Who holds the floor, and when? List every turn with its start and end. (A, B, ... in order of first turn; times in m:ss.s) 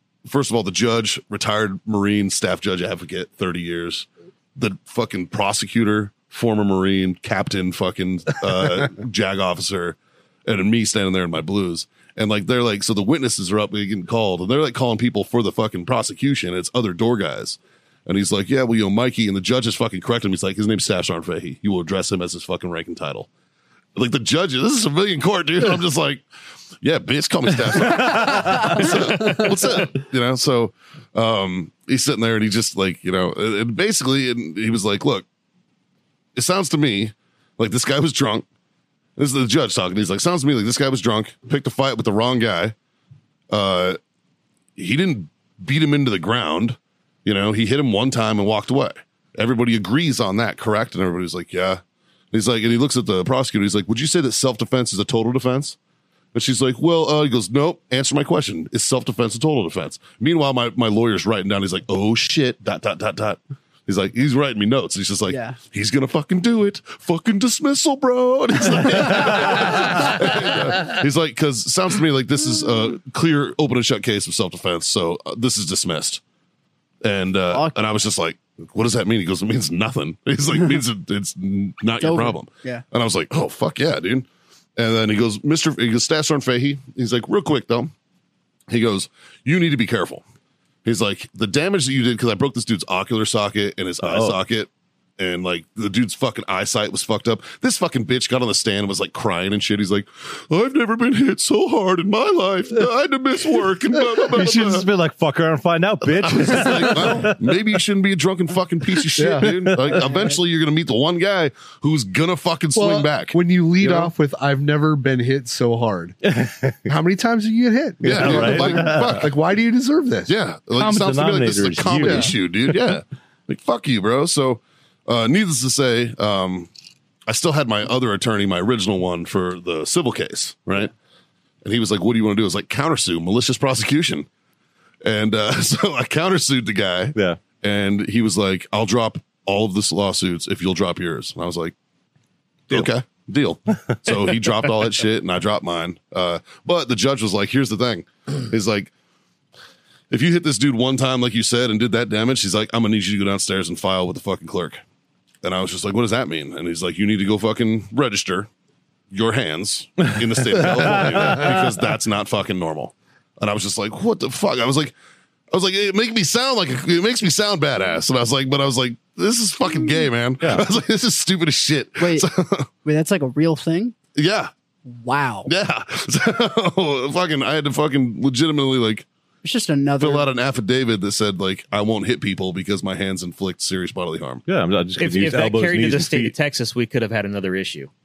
0:00.2-0:23.3 A
0:24.0-0:26.2 A
0:26.8-0:35.2 A
0:27.8-0:29.4 B
0:36.3-0:38.4 A
0:39.2-0:42.7 A
0:43.5-0:44.0 A
0:44.8-0:51.8 A
0:52.3-0:55.8 A
0:56.3-1:16.2 A
1:05.3-1:05.6 C
1:17.0-1:27.9 A
1:22.0-1:22.8 C
1:28.7-1:30.2 A
1:30.8-1:44.9 A
1:34.0-1:34.4 B
1:44.2-1:47.5 B
1:46.1-1:54.1 A
1:49.2-1:49.5 D
1:49.4-1:50.0 B
1:49.9-1:50.4 C
1:52.7-1:56.2 D
1:56.2-1:56.8 B
1:56.8-2:00.3 D
1:58.0-1:59.3 B
1:58.0-1:59.3 A
2:00.3-2:06.7 A
2:00.8-2:02.9 B
2:02.0-2:02.3 D
2:07.3-2:10.9 A
2:11.6-2:14.3 A
2:15.0-2:21.7 A
2:17.1-2:17.4 B
2:22.7-2:28.9 A
2:30.1-2:34.8 A
2:35.4-2:38.5 A
2:39.1-2:44.9 A
2:40.5-2:41.6 B
2:45.5-2:52.7 A
2:50.4-2:50.6 B
2:52.0-2:52.3 C
2:52.8-2:53.9 C
2:54.2-2:54.5 A
2:54.8-2:55.5 C
2:55.4-2:59.1 A
2:59.4-3:00.3 C
3:00.0-3:04.4 A
3:04.5-3:06.3 B
3:05.0-3:07.9 E